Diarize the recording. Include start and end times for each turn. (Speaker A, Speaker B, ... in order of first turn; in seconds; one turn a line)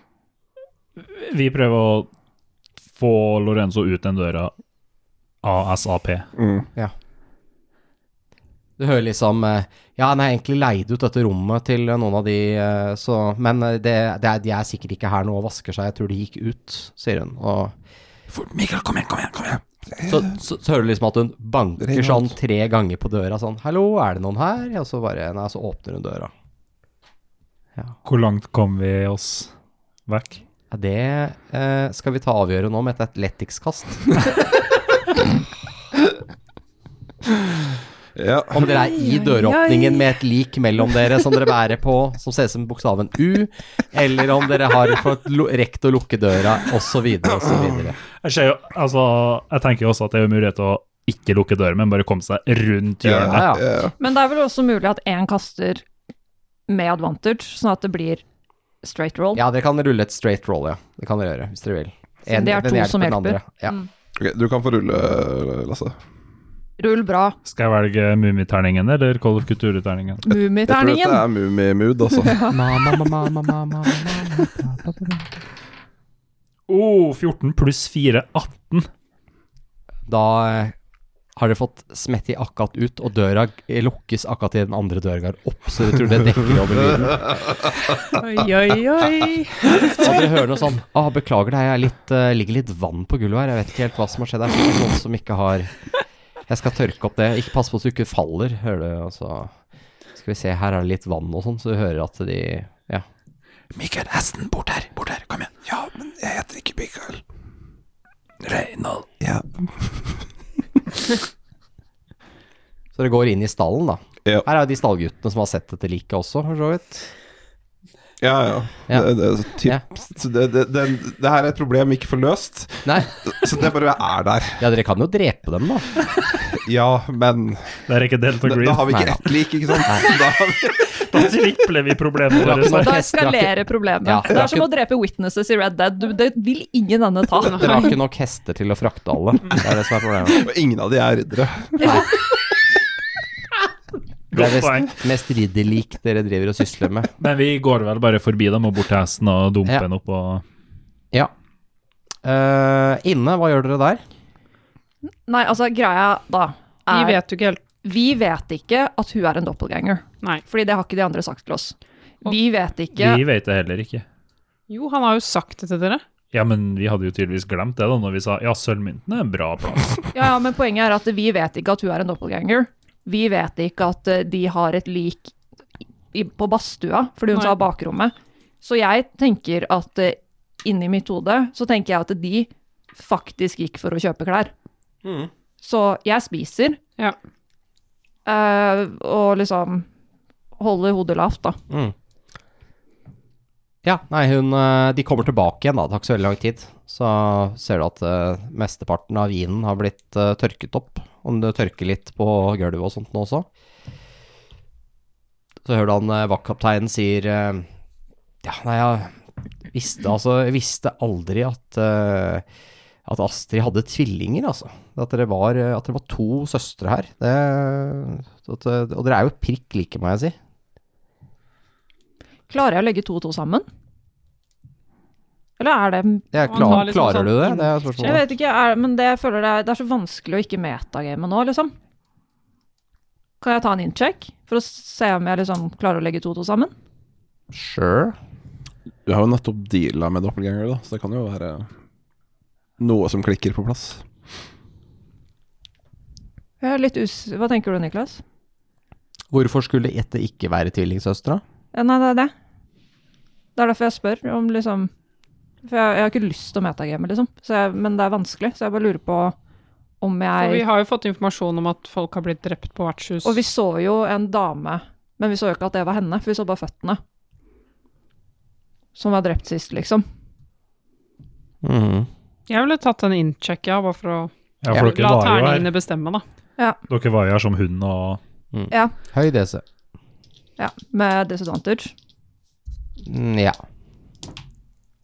Speaker A: 1.0-2.1
Speaker A: 2.9-4.5
Speaker A: 5.4-6.3
Speaker B: 6.4-6.7
Speaker C: 8.8-17.7
Speaker A: 18.3-19.6
Speaker B: 20.0-20.3
Speaker C: 20.1-26.3
Speaker B: 21.8-22.3
Speaker A: 28.1-29.5
Speaker A: 30.1-30.4
Speaker C: 30.7-34.2
Speaker B: 38.1-38.7
Speaker C: 38.5-48.0
Speaker D: 38.8-40.0
Speaker A: 48.2-53.5
Speaker B: 53.0-53.9
Speaker C: 53.2-53.6
Speaker E: 54.0-55.9
Speaker E: 56.7-58.2
Speaker E: 58.8-59.4
Speaker C: 59.4-63.8
Speaker E: 62.3-63.9
Speaker B: 64.2-66.0
Speaker E: 66.8-67.4
Speaker A: 67.5-70.2
Speaker E: 70.2-71.3
Speaker B: 70.6-72.5
Speaker E: 72.1-72.9
Speaker C: 72.5-75.3
Speaker A: 76.7-78.9
Speaker C: 80.1-80.8
Speaker C: 81.4-87.4
Speaker D: 88.1-90.3
Speaker C: 89.8-95.7
Speaker C: 96.5-99.5
Speaker C: 100.1-103.0
Speaker A: 103.8-105.7
Speaker B: 105.7-107.2
Speaker A: 108.4-109.1
Speaker B: 109.2-110.2
Speaker C: 113.0-117.1
Speaker B: 118.2-124.7
Speaker C: 122.8-123.1
Speaker C: 124.6-125.9
Speaker B: 126.5-127.8
Speaker A: 127.9-129.2
Speaker B: 128.4-131.2
Speaker C: 128.9-129.2
Speaker A: 130.9-133.0
Speaker C: 132.4-133.5
Speaker E: 132.6-137.9
Speaker C: 134.0-134.6
Speaker C: 137.4-140.4
Speaker B: 140.3-142.1
Speaker C: 144.3-147.1
Speaker A: 144.3-144.9
Speaker A: 147.2-150.4
Speaker C: 152.2-154.0
Speaker E: 155.3-157.2
Speaker D: 156.9-157.6
Speaker E: 157.8-163.2
Speaker A: 162.9-164.1
Speaker D: 164.7-166.0
Speaker A: 166.3-170.1
Speaker E: 170.1-175.3
Speaker E: 176.1-184.5
Speaker C: 185.0-185.3
Speaker E: 185.6-186.8
Speaker E: 188.3-189.9
Speaker E: 190.6-191.6
Speaker C: 191.7-191.9
Speaker C: 193.8-203.5
Speaker C: 205.6-207.7
Speaker C: 208.4-209.2
Speaker C: 209.7-212.4
Speaker C: 213.1-220.4
Speaker E: 222.5-223.7
Speaker E: 225.6-227.1
Speaker C: 226.3-228.2
Speaker D: 226.5-228.2
Speaker E: 228.0-231.7
Speaker E: 233.4-236.7
Speaker C: 237.5-238.2
Speaker B: 239.1-241.7
Speaker B: 242.8-244.1
Speaker E: 246.6-248.2
Speaker C: 249.3-251.4
Speaker E: 251.7-252.3
Speaker E: 253.6-254.9
Speaker E: 255.6-259.4
Speaker E: 260.0-260.6
Speaker D: 260.4-263.4
Speaker E: 263.2-267.0
Speaker E: 269.0-270.1
Speaker C: 271.6-272.1
Speaker D: 272.5-276.2
Speaker A: 274.6-275.7
Speaker A: 276.9-278.2
Speaker C: 278.5-279.6
Speaker E: 280.6-281.9
Speaker C: 283.0-283.6